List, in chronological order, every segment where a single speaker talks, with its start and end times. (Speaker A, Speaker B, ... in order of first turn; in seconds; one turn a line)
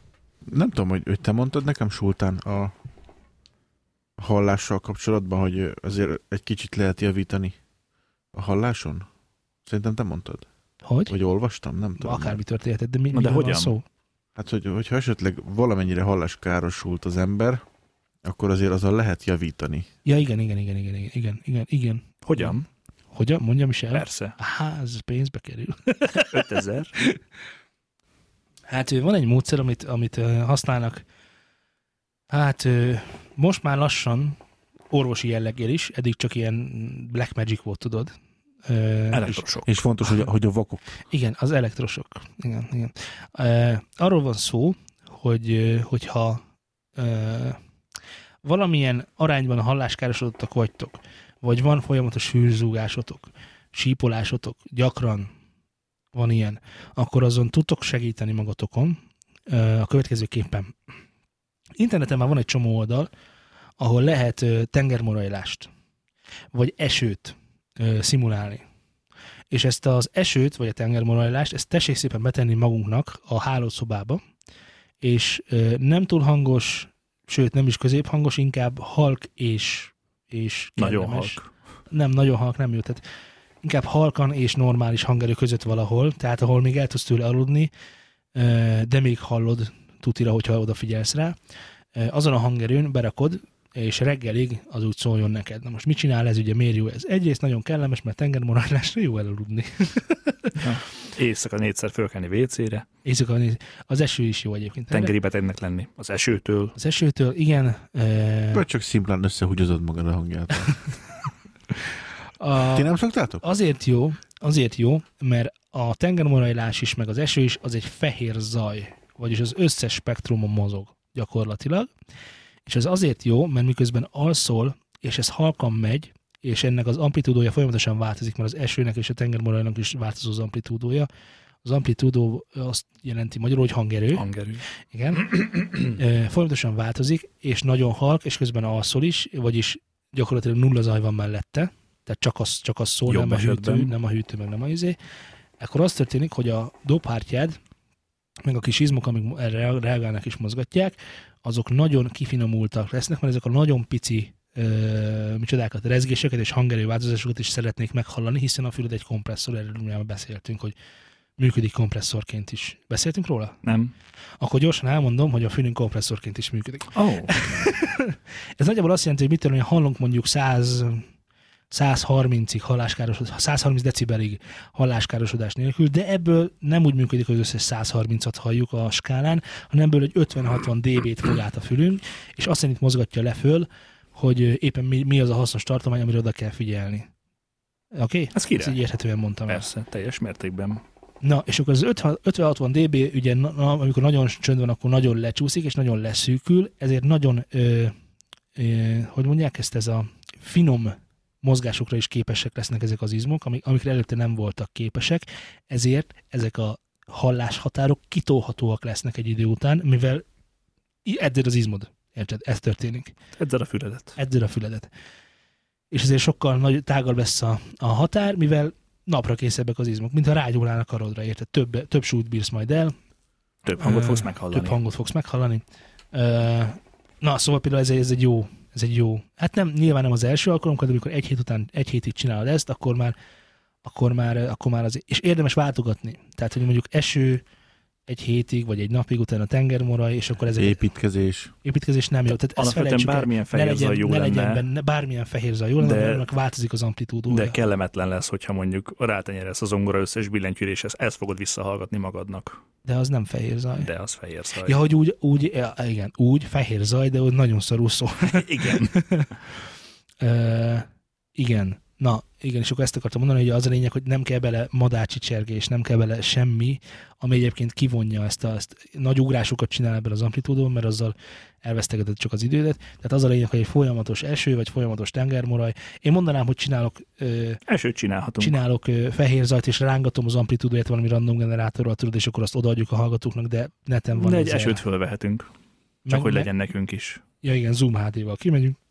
Speaker A: 0.5-2.7
Speaker A: 4.2-7.6
Speaker A: 8.3-9.1
Speaker A: 9.7-10.5
Speaker B: 10.8-11.1
Speaker A: 11.1-12.4
Speaker B: 12.0-13.8
Speaker C: 13.1-13.8
Speaker A: 14.4-17.6
Speaker A: 18.2-19.9
Speaker B: 20.1-22.5
Speaker C: 22.2-22.7
Speaker B: 23.1-26.5
Speaker C: 23.9-24.4
Speaker C: 26.1-26.9
Speaker B: 28.7-31.0
Speaker B: 32.3-34.4
Speaker B: 34.9-38.1
Speaker B: 38.6-39.4
Speaker C: 39.1-39.7
Speaker A: 39.6-40.9
Speaker B: 41.1-46.4
Speaker B: 47.0-47.6
Speaker B: 48.4-55.3
Speaker B: 56.1-60.8
Speaker B: 61.8-63.1
Speaker B: 63.8-65.7
Speaker B: 66.5-68.6
Speaker B: 69.5-74.2
Speaker B: 75.0-81.4
Speaker C: 80.8-81.5
Speaker B: 81.9-83.0
Speaker B: 83.6-87.7
Speaker B: 88.3-91.4
Speaker B: 92.0-100.6
Speaker C: 100.6-102.9
Speaker B: 103.0-105.1
Speaker C: 104.9-106.8
Speaker B: 106.8-108.7
Speaker A: 108.5-110.7
Speaker B: 112.4-121.9
Speaker A: 112.7-113.4
Speaker B: 122.7-131.1
Speaker B: 131.6-134.2
Speaker C: 134.2-134.6
Speaker B: 134.9-145.0
Speaker C: 143.1-143.9
Speaker B: 145.6-147.6
Speaker B: 148.4-160.8
Speaker B: 161.4-163.6
Speaker C: 163.6-163.9
Speaker B: 164.4-171.1
Speaker C: 166.9-167.3
Speaker B: 171.7-187.1
Speaker B: 187.9-189.7
Speaker C: 188.3-188.8
Speaker C: 189.5-190.8
Speaker B: 191.2-197.9
Speaker B: 198.6-210.2
Speaker B: 211.1-213.1
Speaker C: 213.4-214.2
Speaker B: 214.2-214.9
Speaker B: 215.9-222.9
Speaker C: 223.6-224.8
Speaker B: 223.8-233.2
Speaker B: 233.8-237.4
Speaker B: 238.1-240.9
Speaker A: 240.6-241.5
Speaker B: 241.6-247.6
Speaker C: 242.6-244.6
Speaker C: 245.8-246.2
Speaker C: 247.3-252.6
Speaker B: 252.9-253.9
Speaker C: 253.8-254.8
Speaker B: 254.6-259.3
Speaker C: 258.2-259.0
Speaker B: 260.2-277.6
Speaker C: 277.7-278.6
Speaker B: 278.4-284.8
Speaker C: 284.1-285.5
Speaker B: 286.1-286.5
Speaker C: 286.1-287.2
Speaker B: 287.4-288.8